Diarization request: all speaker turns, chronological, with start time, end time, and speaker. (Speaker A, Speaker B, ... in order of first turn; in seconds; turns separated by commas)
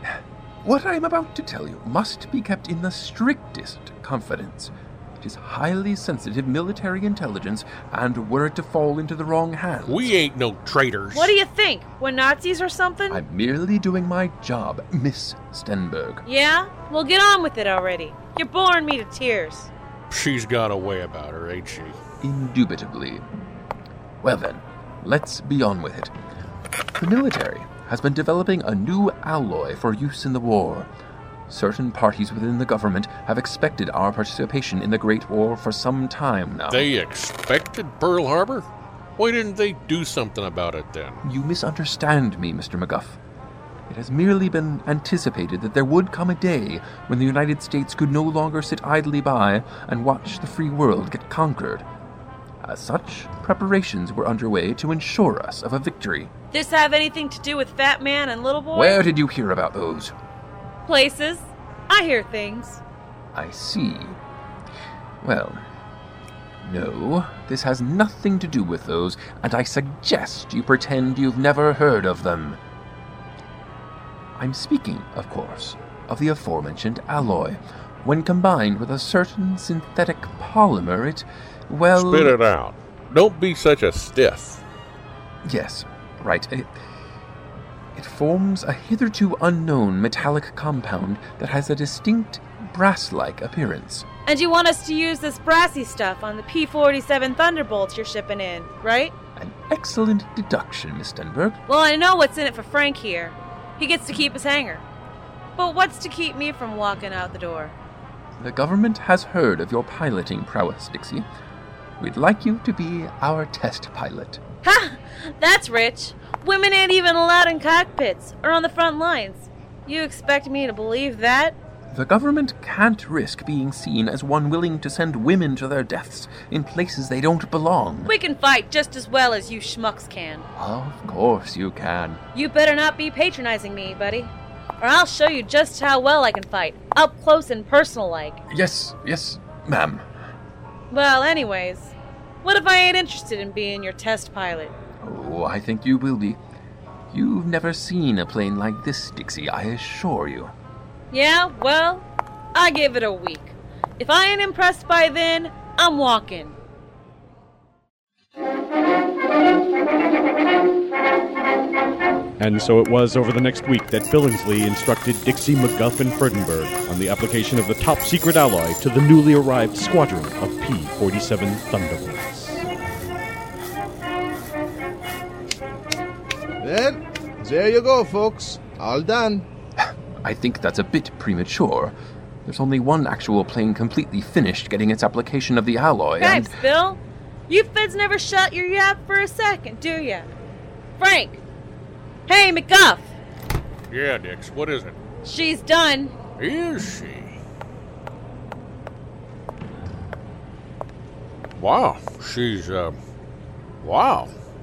Speaker A: 0.6-10.1, Speaker B: 9.9-11.3, Speaker C: 11.1-13.2, Speaker A: 13.1-16.2, Speaker C: 16.2-19.7, Speaker B: 20.1-22.0, Speaker A: 22.2-23.2, Speaker A: 24.2-26.1, Speaker A: 27.0-30.9, Speaker A: 31.5-36.9, Speaker B: 36.7-41.2, Speaker A: 41.2-43.2, Speaker A: 43.9-51.8, Speaker A: 52.6-56.3, Speaker C: 56.5-59.0, Speaker A: 58.7-60.1, Speaker C: 60.9-62.8, Speaker A: 63.3-64.2, Speaker A: 65.2-65.6, Speaker A: 66.6-72.6, Speaker A: 74.4-82.4, Speaker B: 81.9-84.6, Speaker A: 85.4-86.7, Speaker A: 87.9-94.1, Speaker C: 94.2-99.1, Speaker A: 99.4-101.6, Speaker C: 101.7-104.8, Speaker C: 105.6-107.8, Speaker A: 108.4-111.2, Speaker A: 112.0-114.4, Speaker C: 114.6-121.6, Speaker A: 121.9-128.1, Speaker C: 128.1-130.5, Speaker A: 130.6-132.2, Speaker C: 132.3-138.4, Speaker A: 138.5-140.0, Speaker C: 140.9-144.7, Speaker A: 145.0-146.4, Speaker A: 147.1-150.5, Speaker C: 151.1-156.6, Speaker D: 162.4-172.7, Speaker E: 176.6-179.5, Speaker A: 179.8-186.6, Speaker C: 186.2-190.3, Speaker C: 191.0-191.4, Speaker C: 192.3-193.1, Speaker B: 193.9-195.0, Speaker C: 195.2-196.1, Speaker B: 196.4-197.4, Speaker B: 201.6-203.0, Speaker B: 203.8-204.3